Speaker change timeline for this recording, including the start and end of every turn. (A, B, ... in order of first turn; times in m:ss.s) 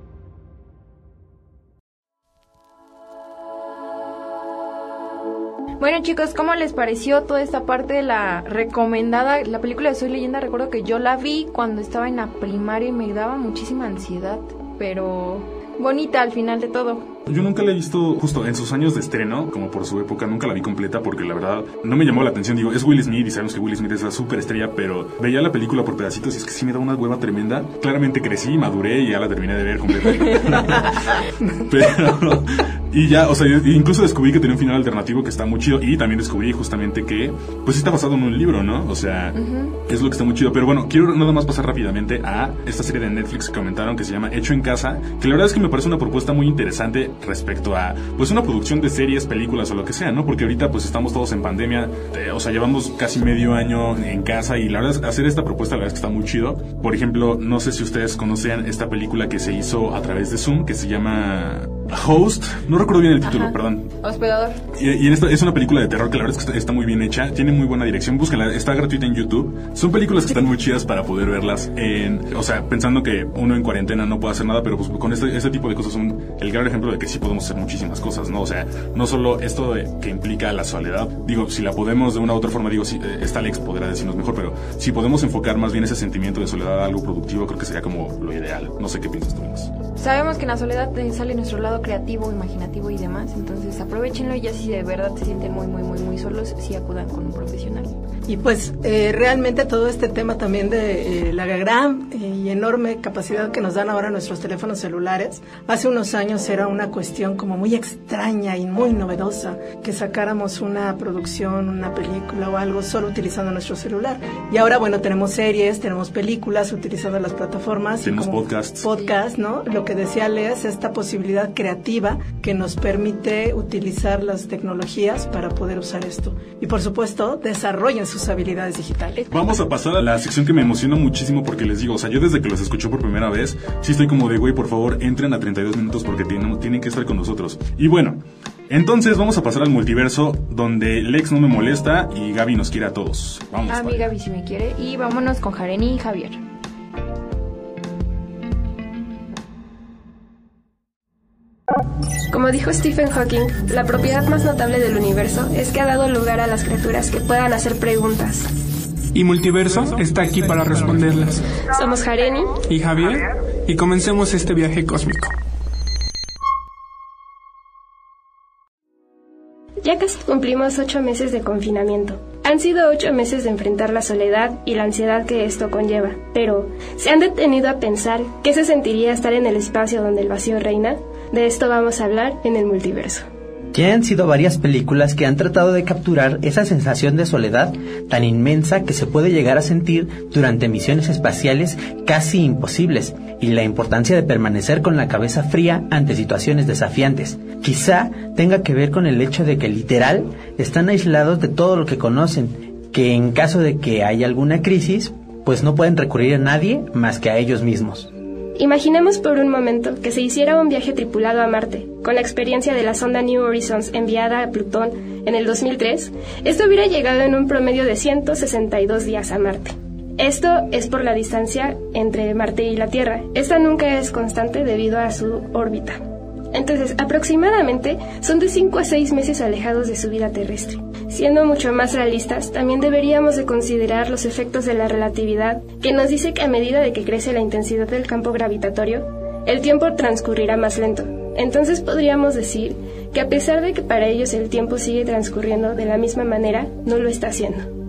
0:05.8-0:17.1 A
0:17.3-1:03.9 B
0:39.3-0:39.8 A
1:03.2-1:04.6 A
1:04.7-1:29.7 B
1:29.9-1:38.0 A
1:38.3-2:09.3 C
1:58.0-1:58.9 B
2:09.3-2:24.1 B
2:23.7-2:26.4 A
2:32.3-2:38.5 D
2:39.1-2:41.4 E
2:41.7-2:42.6 D
2:42.7-2:45.3 E
2:49.8-3:03.2 D
3:03.7-3:28.1 F
3:28.6-3:46.0 D
3:46.5-4:07.7 D